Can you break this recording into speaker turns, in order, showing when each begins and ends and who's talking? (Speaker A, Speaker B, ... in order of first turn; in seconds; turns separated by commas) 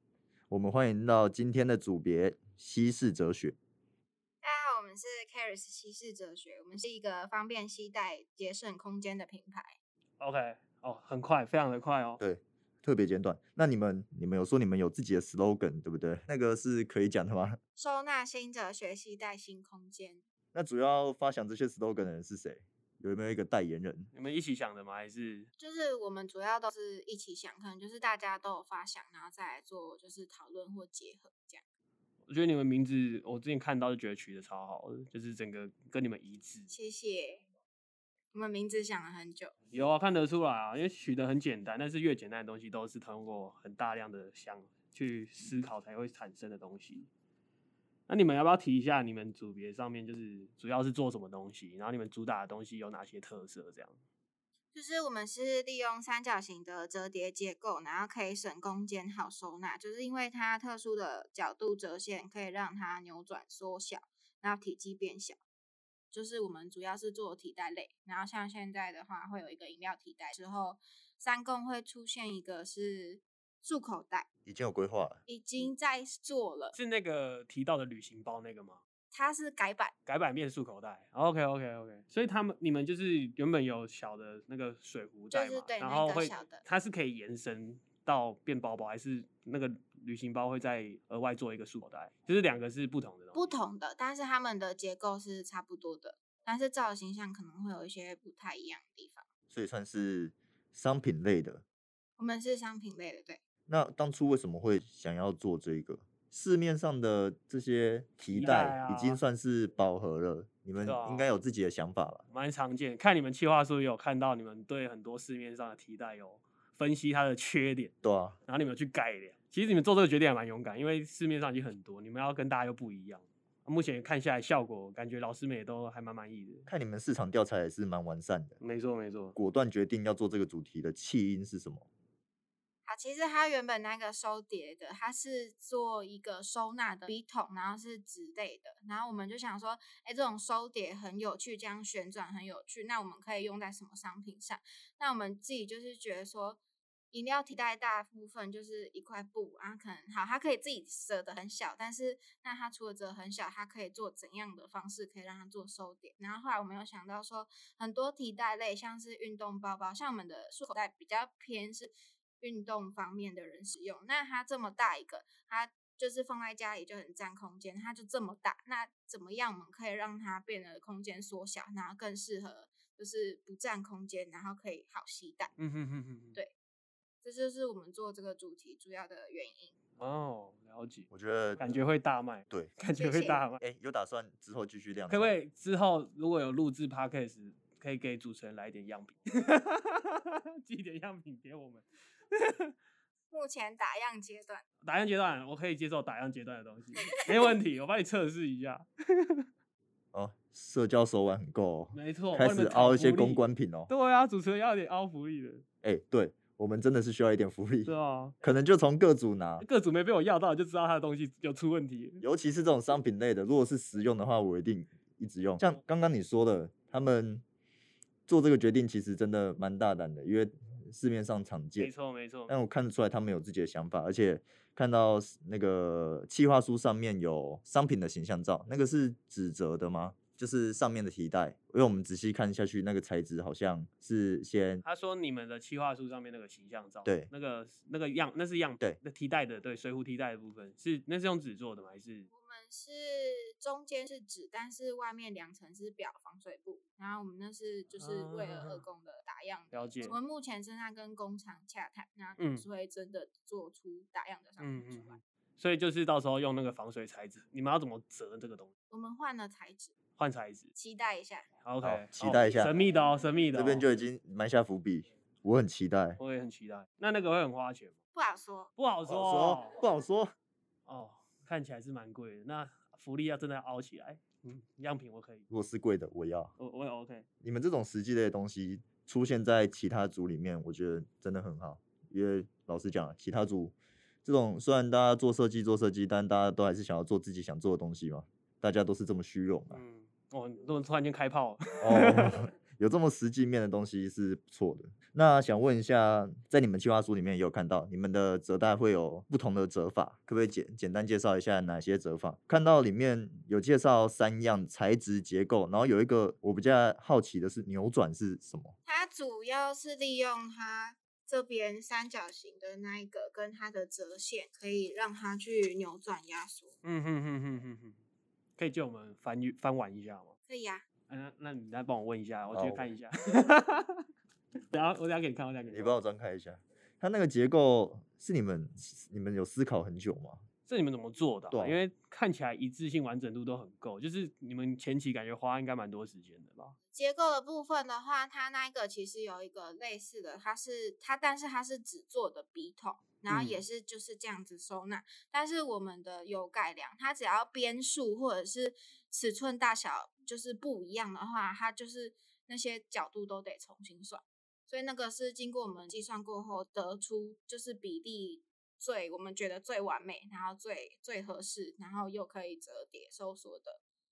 Speaker A: 0.5-3.5, Speaker B: 4.4-9.8, Speaker C: 10.2-12.2, Speaker A: 12.2-17.6, Speaker B: 17.7-20.2, Speaker A: 20.5-24.1, Speaker C: 24.1-25.5, Speaker B: 25.6-31.6, Speaker C: 32.3-36.7, Speaker B: 36.7-37.4, Speaker B: 38.3-39.5, Speaker C: 39.7-47.1, Speaker C: 48.1-54.0, Speaker B: 54.7-65.4, Speaker B: 66.1-74.3, Speaker A: 74.5-75.2, Speaker B: 75.3-76.8, Speaker C: 76.7-78.8, Speaker B: 79.1-79.9, Speaker C: 80.0-93.5, Speaker B: 85.3-86.6, Speaker B: 93.3-99.2, Speaker A: 99.5-101.6, Speaker B: 102.2-103.4, Speaker A: 103.7-112.2, Speaker C: 108.3-109.2, Speaker C: 110.8-111.3, Speaker C: 112.3-117.9, Speaker A: 118.0-118.3, Speaker C: 118.5-126.7, Speaker A: 126.7-128.6, Speaker C: 128.6-129.3, Speaker A: 129.3-131.9, Speaker B: 132.8-146.6, Speaker B: 147.1-175.5, Speaker C: 175.6-176.4, Speaker B: 177.2-179.7, Speaker C: 180.0-183.6, Speaker A: 181.1-181.6, Speaker B: 182.9-183.4, Speaker A: 183.6-185.3, Speaker C: 185.1-192.7, Speaker B: 193.3-194.6, Speaker C: 194.8-199.4, Speaker A: 200.1-203.9, Speaker C: 201.9-205.6, Speaker A: 205.8-209.6, Speaker C: 207.8-208.4, Speaker C: 209.6-212.2, Speaker A: 212.2-217.4, Speaker A: 218.3-221.9, Speaker C: 221.8-222.5, Speaker A: 222.5-234.8, Speaker C: 234.8-242.3, Speaker B: 242.3-255.2, Speaker C: 247.9-248.8, Speaker C: 249.7-250.2, Speaker C: 252.4-252.7, Speaker C: 254.6-258.7, Speaker B: 258.9-259.9, Speaker C: 260.2-260.7, Speaker B: 260.7-261.5, Speaker C: 261.6-263.8, Speaker A: 261.8-262.7, Speaker A: 263.5-266.2, Speaker C: 266.2-267.9, Speaker B: 268.1-268.7, Speaker C: 268.8-269.8, Speaker A: 269.1-270.3, Speaker C: 270.9-275.4, Speaker A: 275.5-276.5, Speaker C: 276.6-277.2, Speaker A: 277.4-289.8, Speaker C: 289.7-292.4, Speaker A: 291.8-308.7, Speaker B: 308.9-316.7, Speaker C: 316.8-318.0, Speaker C: 318.6-320.3, Speaker B: 320.5-320.8, Speaker C: 321.1-324.0, Speaker A: 322.5-322.9, Speaker C: 324.7-326.0, Speaker A: 325.7-330.4, Speaker C: 330.7-336.7, Speaker A: 331.5-331.8, Speaker B: 336.9-363.8